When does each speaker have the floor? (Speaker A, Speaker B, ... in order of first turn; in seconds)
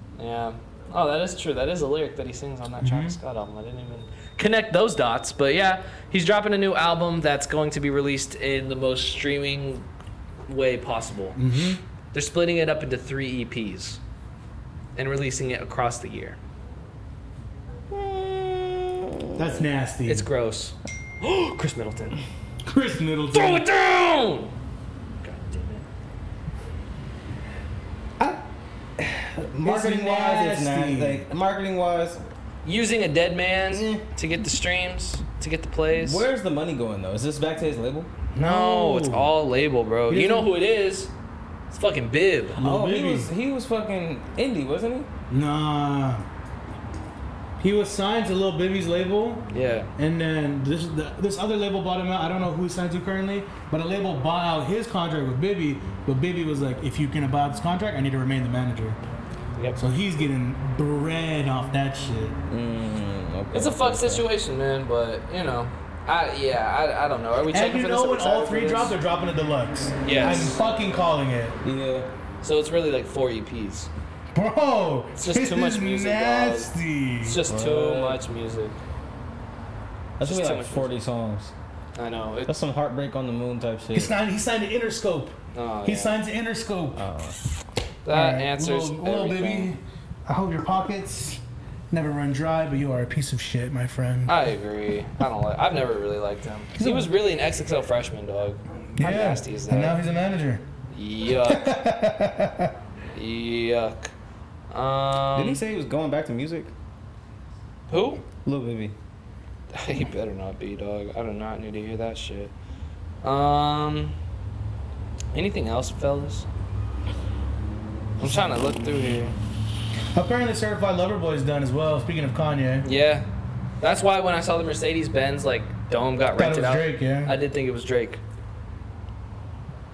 Speaker A: 0.2-9.9, 10.5-11.4, 12.1-14.0, 15.0-16.4, 20.1-22.2, 23.3-24.5, 25.2-25.9, 32.6-36.3, 38.4-41.1, 41.7-42.6, 49.5-49.9, 63.5-68.9, 70.0-70.6, 72.4-73.9, 75.2-76.7, 77.2-78.8, 80.2-80.9, 82.0-82.5, 85.5-86.2, 88.0-89.7, 94.3-100.0, 100.9-101.7, 103.2-104.1, 104.7-105.6, 107.9-108.2, 109.7-112.5, 113.2-114.2, 115.3-116.5, 118.2-119.3, 122.8-123.3, 123.8-128.2
Speaker B: 2.8-3.2, 11.4-11.8, 19.4-20.3, 22.6-23.7, 29.6-31.2, 38.3-39.3, 40.1-40.5, 42.6-43.3, 45.3-46.2, 47.6-59.0, 59.8-62.4, 67.5-71.6, 74.3-77.4, 84.0-87.0, 88.1-94.4, 96.8-97.1, 99.0-100.7, 101.3-102.7, 120.1-122.9, 126.4-127.4
Speaker C: 17.9-19.6, 29.0-32.2, 33.7-34.1, 36.0-38.1, 42.6-45.1, 62.5-64.2, 71.6-72.1, 77.5-78.2, 80.2-81.5, 82.5-84.2, 86.9-87.4, 105.3-106.7, 108.4-109.0